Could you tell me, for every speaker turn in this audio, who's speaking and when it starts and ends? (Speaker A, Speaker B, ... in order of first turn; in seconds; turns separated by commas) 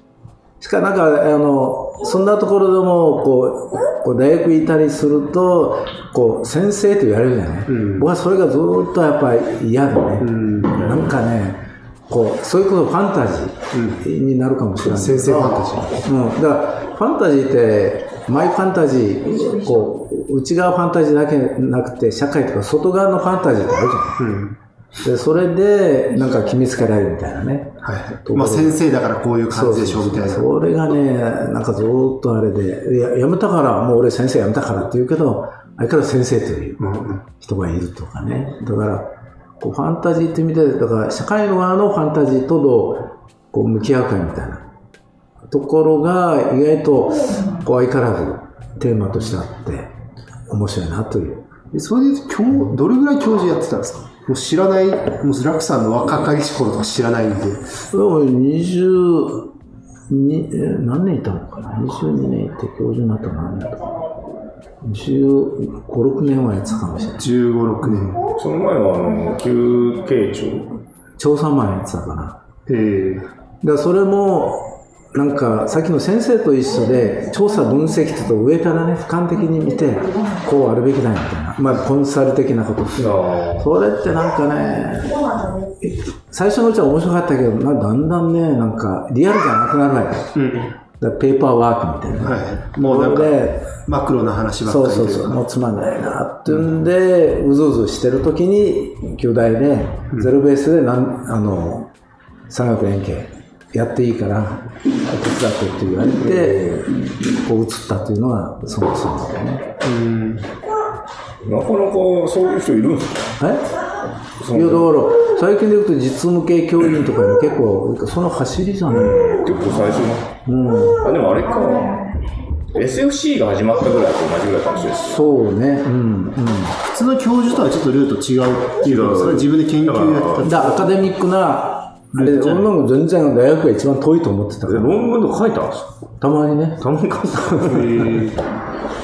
Speaker A: 0.6-24.3, Speaker B: 7.7-8.1, Speaker B: 10.2-11.2, Speaker B: 13.7-14.0, Speaker B: 14.8-16.0, Speaker B: 24.2-24.6, Speaker A: 25.0-28.8, Speaker B: 27.8-30.5, Speaker A: 29.5-44.6, Speaker B: 36.8-37.2, Speaker A: 45.5-49.9, Speaker A: 50.5-51.5, Speaker B: 51.7-57.6, Speaker A: 57.9-59.5, Speaker A: 60.1-63.9, Speaker A: 64.8-67.3, Speaker B: 67.2-68.2, Speaker C: 68.2-70.8, Speaker A: 71.2-72.4, Speaker B: 72.7-73.3, Speaker A: 73.6-90.3, Speaker C: 83.0-83.7, Speaker B: 90.3-90.7, Speaker A: 91.0-93.7, Speaker B: 92.2-95.4, Speaker A: 94.7-101.9, Speaker A: 102.5-109.6, Speaker C: 106.2-106.7, Speaker B: 109.8-110.5, Speaker C: 111.4-113.4, Speaker A: 113.4-113.7, Speaker C: 114.4-114.9, Speaker A: 114.5-119.2, Speaker C: 118.9-120.3, Speaker A: 120.5-121.0, Speaker C: 121.0-122.1, Speaker C: 122.7-125.2, Speaker A: 125.0-126.8, Speaker B: 126.9-131.0, Speaker C: 128.8-130.5, Speaker A: 130.4-135.1, Speaker B: 132.1-132.7, Speaker C: 134.7-135.9, Speaker A: 136.2-136.8, Speaker C: 136.8-138.1, Speaker A: 137.4-137.9, Speaker B: 137.7-138.4